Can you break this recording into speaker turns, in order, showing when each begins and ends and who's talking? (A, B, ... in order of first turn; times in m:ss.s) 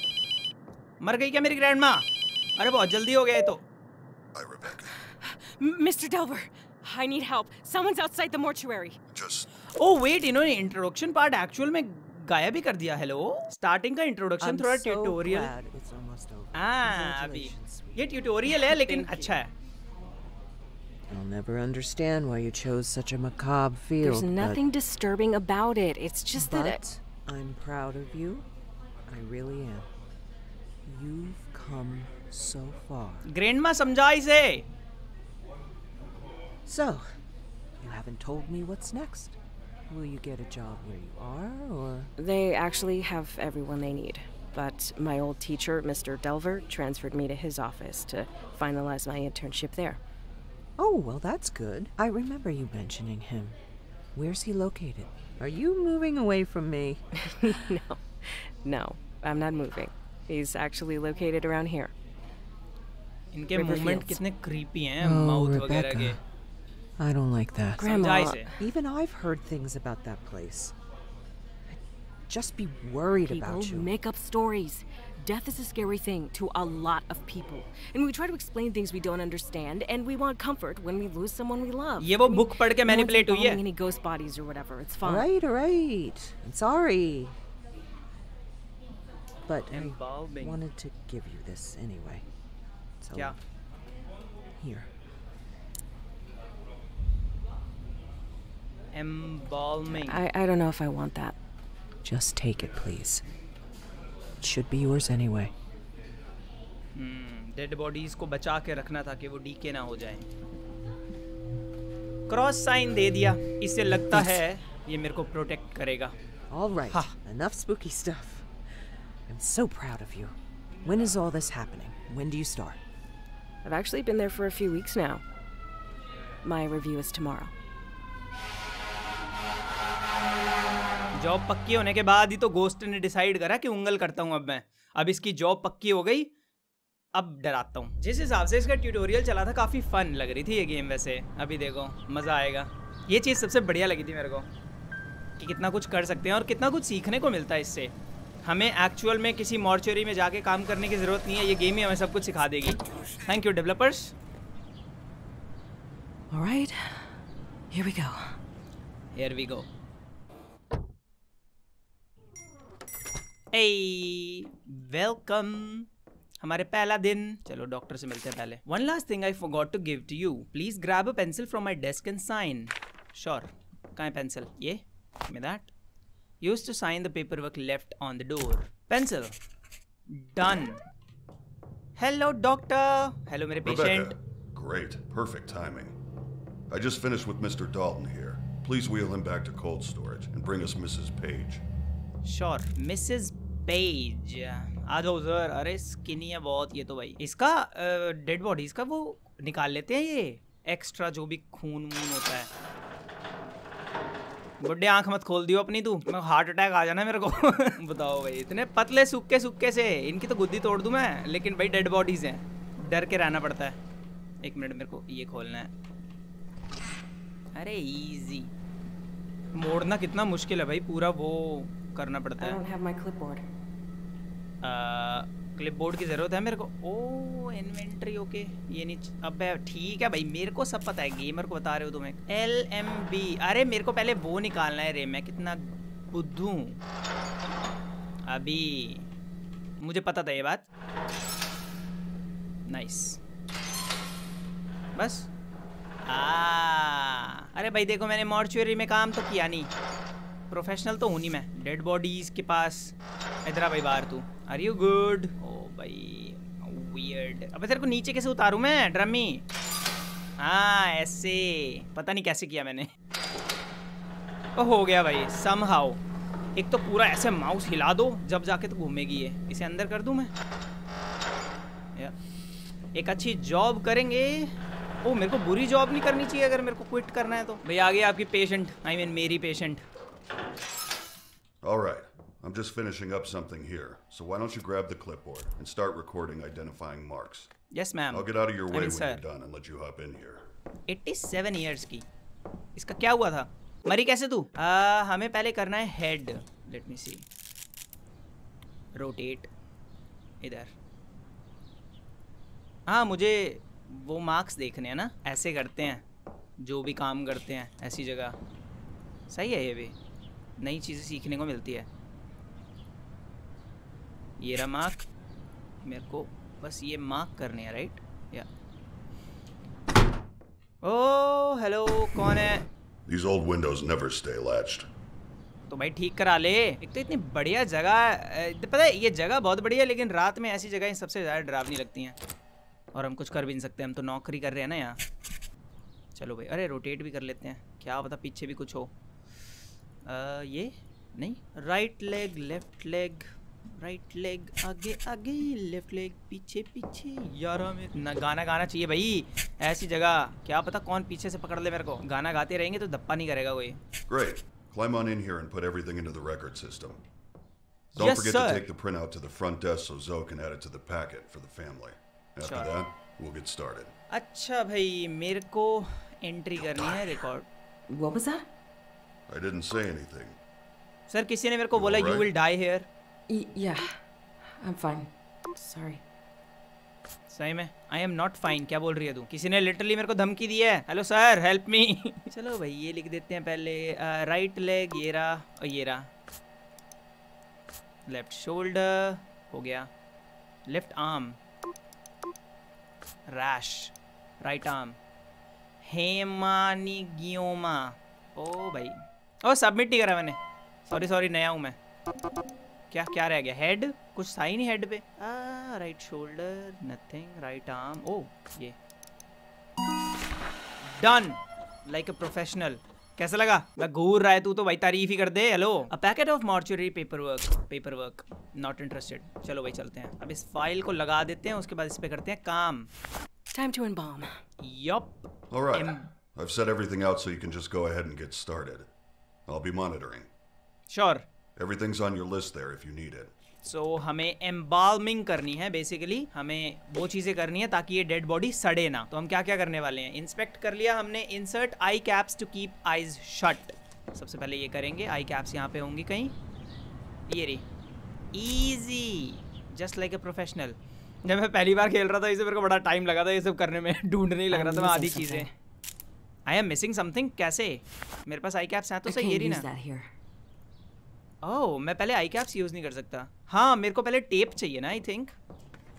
0:01.0-0:02.1 A
0:02.6-0:03.6 A
0:04.3-0:04.9 B
0:05.2-0:09.0 C
0:09.1-0:09.5 B
0:09.8-0:15.5 A
0:14.4-0:18.2 D
0:16.5-0:19.5 A
0:18.8-0:19.2 C
0:21.1-0:24.6 D
0:24.0-0:26.8 C
0:26.4-0:28.4 D
0:29.1-0:29.9 D
0:30.8-0:33.2 D
0:33.2-0:34.6 A
0:36.6-0:37.1 D
0:37.8-0:39.4 D
0:39.9-0:42.1 D
0:42.2-0:50.0 C
0:50.8-0:53.6 D
0:54.1-0:57.0 D
0:57.2-1:01.9 C
1:03.3-1:06.2 A
1:03.5-1:04.2 C
1:05.0-1:06.2 D
1:07.0-1:07.9 D
1:07.8-1:08.6 C
1:07.8-1:08.5 A
1:08.6-1:10.7 D
1:12.3-1:13.9 D
1:13.2-1:25.3 C
1:22.0-1:23.6 A
1:25.0-1:27.3 D
1:29.4-1:32.2 D
1:29.7-1:30.6 A
1:33.0-1:33.4 D
1:34.6-1:34.9 D
1:38.9-1:40.2 A
1:40.1-1:41.4 C
1:42.0-1:43.2 D
1:44.4-1:45.5 D
1:46.9-1:50.2 A
1:52.3-1:56.1 A
1:56.5-1:58.5 D
1:56.9-1:57.1 A
1:59.3-2:02.8 D
2:03.6-2:05.2 C
2:06.4-2:07.5 C
2:11.2-2:16.3 A
2:17.1-2:24.5 A
2:25.4-2:27.9 A
2:28.4-2:34.1 A
2:36.3-2:37.2 C
2:37.7-2:38.4 C
2:39.1-2:39.7 A
2:43.5-2:45.9 A
2:46.4-2:55.7 A
2:56.4-2:59.3 A
3:00.1-3:00.8 A
3:02.0-3:04.2 A
3:03.6-3:06.0 B
3:06.7-3:11.6 B
3:12.2-3:22.5 A
3:24.6-3:33.8 A
3:34.4-3:35.7 A
3:37.5-3:38.5 A
3:39.6-3:42.6 A
3:42.4-3:43.4 C
3:44.6-3:56.8 A
3:58.3-3:59.1 A
3:59.8-4:00.6 A
4:02.7-4:03.2 A
4:05.0-4:05.3 A
4:06.1-4:09.7 A
4:10.5-4:12.9 A
4:13.4-4:19.4 A
4:20.4-4:22.9 A
4:24.6-4:26.0 A
4:26.6-4:30.3 A
4:32.9-4:39.8 A
4:41.6-4:47.5 B
4:47.7-4:49.2 A
4:48.1-4:50.5 B
4:50.9-4:52.0 A
4:52.8-4:57.2 A
4:58.9-4:59.5 A
5:00.4-5:00.7 A
5:02.9-5:06.0 A
5:06.6-5:08.4 A
5:09.3-5:09.9 A
5:10.6-5:11.9 A
5:14.4-5:15.1 A
5:15.8-5:18.5 A
5:20.8-5:22.6 A
5:23.0-5:24.9 B
5:25.7-5:32.2 A
5:32.9-5:35.0 A
5:36.2-5:38.9 A
5:40.0-5:53.8 A
5:54.1-5:57.0 B
5:57.9-5:58.6 A
5:58.0-6:03.9 B
6:02.4-6:02.7 A
6:04.1-6:07.5 A
6:06.6-6:07.2 B
6:07.9-6:08.4 C
6:09.3-6:10.4 B
6:11.1-6:12.9 A
6:11.7-6:12.3 B
6:13.3-6:14.0 C
6:14.6-6:16.0 C
6:17.3-6:26.1 A
6:28.1-6:29.9 A
6:30.7-6:31.4 A
6:33.3-6:35.0 A
6:35.8-6:41.8 A
6:42.9-6:48.8 A
6:50.8-7:02.9 A
7:03.5-7:04.4 C
7:04.6-7:05.2 A
7:05.5-7:08.9 B
7:05.7-7:06.0 A
7:09.5-7:10.3 B
7:10.9-7:11.2 A
7:11.6-7:13.3 B
7:13.6-7:26.3 A
7:27.3-7:27.6 A
7:28.3-7:35.5 A
7:34.5-7:35.5 C
7:36.4-7:39.6 A
7:39.0-7:40.1 C
7:41.4-7:45.3 A